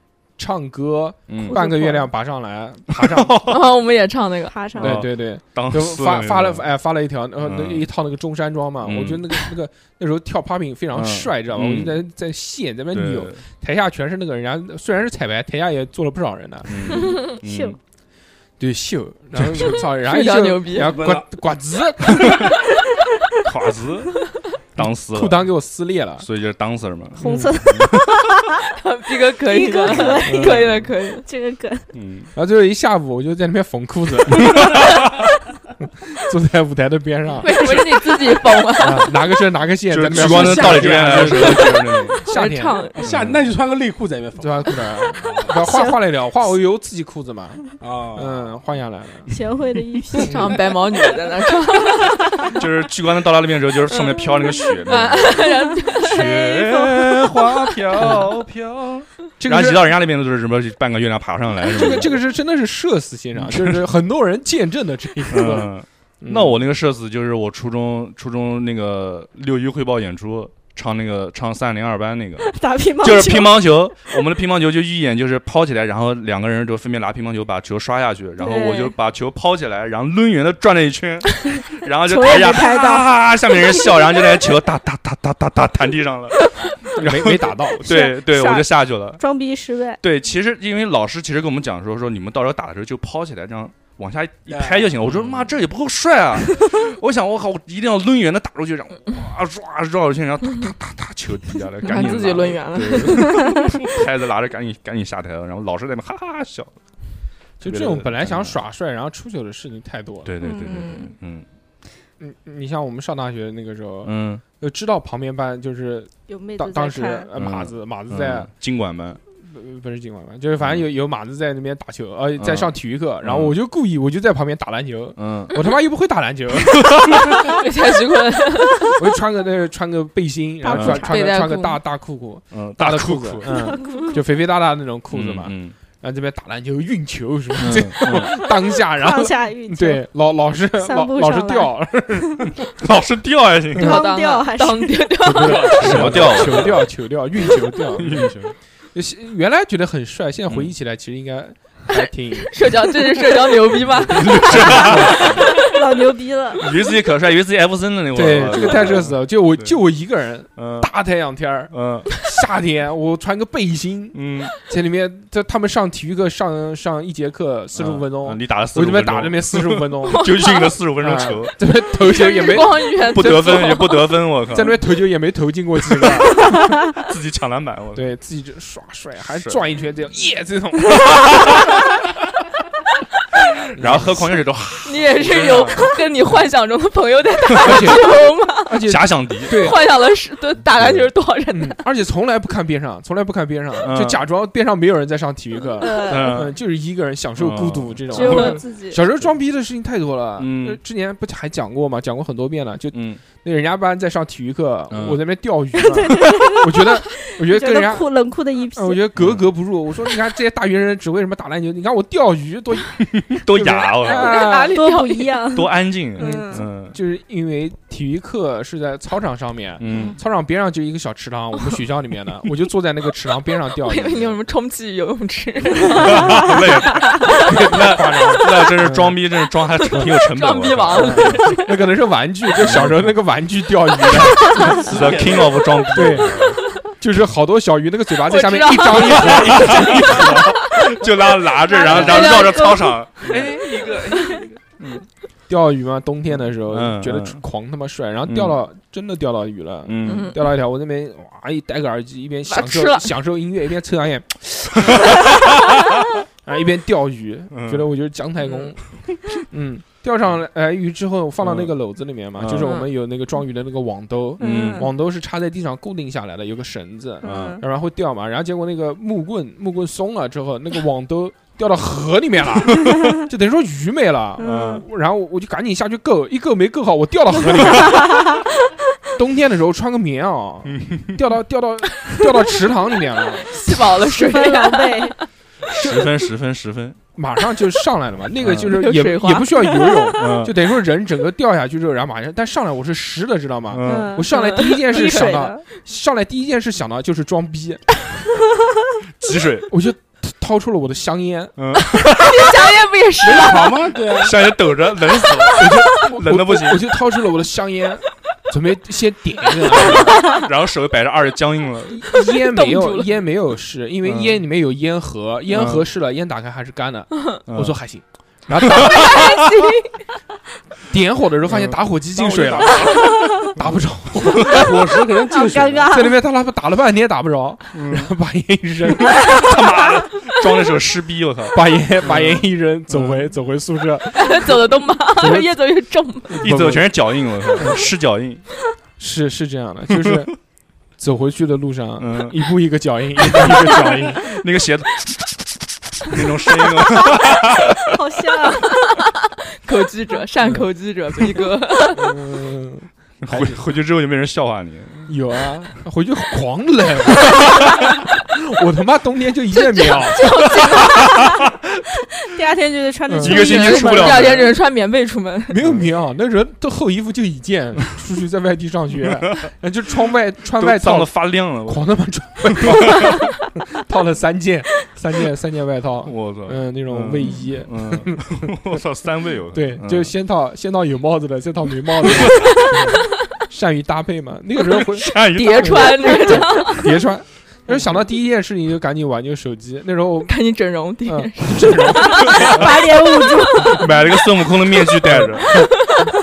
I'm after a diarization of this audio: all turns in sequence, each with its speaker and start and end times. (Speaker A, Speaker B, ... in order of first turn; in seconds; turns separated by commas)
Speaker A: 0.4-3.4, Speaker B: 1.3-1.6, Speaker C: 1.5-2.0, Speaker B: 3.0-3.6, Speaker C: 3.4-4.6, Speaker D: 4.5-5.0, Speaker B: 4.8-6.7, Speaker A: 4.8-17.1, Speaker B: 7.4-7.9, Speaker B: 8.8-9.5, Speaker B: 10.9-12.0, Speaker B: 12.9-13.4, Speaker B: 16.6-17.8, Speaker D: 17.3-17.8, Speaker A: 18.6-22.5, Speaker C: 20.0-21.0, Speaker E: 20.8-21.3, Speaker B: 23.4-25.5, Speaker A: 24.8-26.3, Speaker B: 26.2-28.1, Speaker A: 27.2-27.6, Speaker D: 27.2-28.6, Speaker C: 28.8-31.3, Speaker D: 29.4-31.9, Speaker A: 30.2-30.7, Speaker B: 31.9-32.3, Speaker A: 32.4-35.0, Speaker B: 34.3-35.2, Speaker A: 36.1-37.6, Speaker C: 37.4-39.1, Speaker A: 38.8-42.9, Speaker B: 39.9-42.3, Speaker E: 40.3-40.9, Speaker C: 42.2-43.1, Speaker E: 43.0-45.6, Speaker B: 43.0-43.4, Speaker A: 44.4-49.3, Speaker D: 45.6-46.0, Speaker E: 47.8-48.6, Speaker D: 49.3-50.7, Speaker C: 50.2-52.6, Speaker A: 50.2-50.5, Speaker B: 52.5-55.5, Speaker C: 53.9-56.3, Speaker D: 54.7-57.5, Speaker B: 56.0-62.2, Speaker A: 59.4-59.9, Speaker A: 61.7-66.6, Speaker B: 63.4-63.8, Speaker B: 65.3-89.2, Speaker D: 72.5-73.7, Speaker D: 78.4-78.9, Speaker D: 82.1-84.4, Speaker A: 87.0-87.8, Speaker D: 87.8-90.0, Speaker B: 90.0-106.8, Speaker E: 94.5-94.9, Speaker C: 101.8-103.7, Speaker A: 107.6-110.3, Speaker B: 107.6-108.6, Speaker B: 110.2-111.5, Speaker D: 110.4-111.2, Speaker A: 112.2-118.5, Speaker B: 114.0-114.4, Speaker D: 116.3-117.3, Speaker B: 117.4-119.2, Speaker A: 119.4-127.3, Speaker B: 120.6-120.9, Speaker B: 122.4-123.6, Speaker B: 125.2-125.6, Speaker B: 126.7-127.4, Speaker C: 127.4-129.0, Speaker A: 129.0-142.5, Speaker D: 130.6-131.2, Speaker B: 130.7-131.1, Speaker C: 131.0-131.8, Speaker B: 132.5-133.6, Speaker B: 135.1-135.8, Speaker B: 137.6-138.3, Speaker D: 138.1-140.1, Speaker D: 140.7-142.5, Speaker B: 142.8-144.0, Speaker D: 143.8-145.5, Speaker C: 143.8-146.4, Speaker A: 145.2-152.6, Speaker B: 145.4-146.9, Speaker B: 148.0-148.5, Speaker C: 151.9-155.7, Speaker B: 154.0-155.5, Speaker A: 154.4-155.4, Speaker D: 155.5-156.7, Speaker B: 156.6-159.8, Speaker A: 158.1-170.3, Speaker B: 160.6-160.9, Speaker B: 161.7-162.1, Speaker B: 164.1-164.5, Speaker B: 167.7-171.6, Speaker C: 170.1-170.7, Speaker A: 171.0-173.4, Speaker C: 172.0-174.1, Speaker B: 172.5-174.8, Speaker A: 174.5-176.6, Speaker B: 176.0-178.1, Speaker A: 177.9-181.6, Speaker B: 179.3-179.6, Speaker B: 181.1-181.6, Speaker A: 183.7-184.3, Speaker B: 183.8-185.9, Speaker C: 184.8-188.8, Speaker A: 187.6-188.1, Speaker A: 188.6-189.8, Speaker B: 188.8-189.7, Speaker C: 189.5-191.8, Speaker B: 190.8-191.1, Speaker A: 191.5-208.1, Speaker B: 193.8-194.2, Speaker D: 195.8-196.4, Speaker B: 196.0-196.6, Speaker B: 197.4-198.6, Speaker D: 198.1-199.0, Speaker B: 200.4-200.8, Speaker B: 202.9-203.2, Speaker B: 204.9-205.2, Speaker D: 205.8-209.0, Speaker A: 208.8-214.8, Speaker B: 209.2-209.5, Speaker B: 213.0-214.4, Speaker C: 214.1-215.5, Speaker D: 214.1-216.7, Speaker B: 215.5-217.0, Speaker A: 216.2-224.4, Speaker B: 219.8-220.2, Speaker D: 219.9-220.2, Speaker C: 223.8-226.6, Speaker B: 225.9-231.5, Speaker A: 226.1-226.3, Speaker A: 227.4-229.2, Speaker C: 229.9-231.7, Speaker A: 230.9-235.4, Speaker B: 232.6-233.2, Speaker B: 234.4-236.6, Speaker A: 235.9-240.5, Speaker C: 238.2-240.5, Speaker B: 238.9-245.1, Speaker D: 241.7-242.9, Speaker C: 241.7-243.0, Speaker A: 241.8-242.2, Speaker C: 244.1-244.4, Speaker A: 245.5-255.0, Speaker B: 246.4-247.4, Speaker B: 248.3-248.6, Speaker B: 249.8-250.3, Speaker C: 250.0-250.4, Speaker C: 252.5-253.1, Speaker B: 254.9-255.3, Speaker A: 256.4-258.8, Speaker B: 257.5-257.9, Speaker A: 259.5-278.4, Speaker B: 261.4-261.7, Speaker B: 262.4-262.8, Speaker C: 262.6-262.9, Speaker B: 264.4-264.9, Speaker D: 264.4-264.9, Speaker D: 267.2-267.6, Speaker B: 267.2-267.6, Speaker D: 274.4-274.9, Speaker B: 274.4-274.9, Speaker D: 277.7-278.3, Speaker A: 279.2-283.5, Speaker B: 280.7-281.2, Speaker C: 283.5-285.2, Speaker D: 284.1-285.2, Speaker B: 285.7-287.0, Speaker A: 285.8-286.1, Speaker A: 287.1-298.0, Speaker B: 288.4-288.8, Speaker C: 288.6-290.1, Speaker B: 290.2-290.6, Speaker B: 293.7-294.3, Speaker D: 293.8-295.6, Speaker C: 294.3-295.4, Speaker B: 299.2-299.7, Speaker A: 299.7-301.5, Speaker B: 301.6-302.5, Speaker C: 302.2-304.0, Speaker E: 303.2-304.4, Speaker B: 304.2-306.9, Speaker C: 305.2-305.4, Speaker A: 305.6-310.2, Speaker B: 309.8-312.2, Speaker A: 311.9-319.2, Speaker C: 312.2-313.1, Speaker B: 314.0-314.4, Speaker B: 315.5-315.9, Speaker B: 317.5-317.8, Speaker C: 318.8-319.9, Speaker B: 319.0-319.4, Speaker A: 320.9-324.6, Speaker B: 321.5-324.7, Speaker D: 323.0-323.3, Speaker E: 324.4-325.9, Speaker D: 325.3-326.2, Speaker A: 325.9-329.2, Speaker B: 327.7-328.1, Speaker B: 329.1-333.3, Speaker A: 331.5-334.4, Speaker C: 334.1-336.5, Speaker A: 335.2-335.6, Speaker A: 336.3-337.8, Speaker B: 336.4-338.4, Speaker A: 339.0-340.4, Speaker B: 340.0-340.2, Speaker A: 341.0-344.2, Speaker B: 342.0-342.5, Speaker B: 343.2-347.9, Speaker D: 347.9-348.7, Speaker C: 349.6-352.1, Speaker A: 351.9-353.6, Speaker B: 353.2-355.2, Speaker A: 355.1-360.3, Speaker B: 357.3-357.7, Speaker C: 359.5-361.2, Speaker B: 360.5-361.5, Speaker D: 362.2-364.5, Speaker A: 363.1-363.4, Speaker B: 363.2-364.5, Speaker C: 363.2-365.6, Speaker A: 365.5-378.6, Speaker B: 370.6-371.9, Speaker B: 372.7-373.2, Speaker B: 376.0-380.1, Speaker A: 379.5-390.4, Speaker C: 382.2-382.7, Speaker B: 384.6-386.6, Speaker C: 385.3-387.0, Speaker C: 390.3-392.5, Speaker A: 391.1-392.7, Speaker D: 392.3-394.0, Speaker B: 392.4-392.6, Speaker B: 393.6-395.8, Speaker A: 395.1-395.7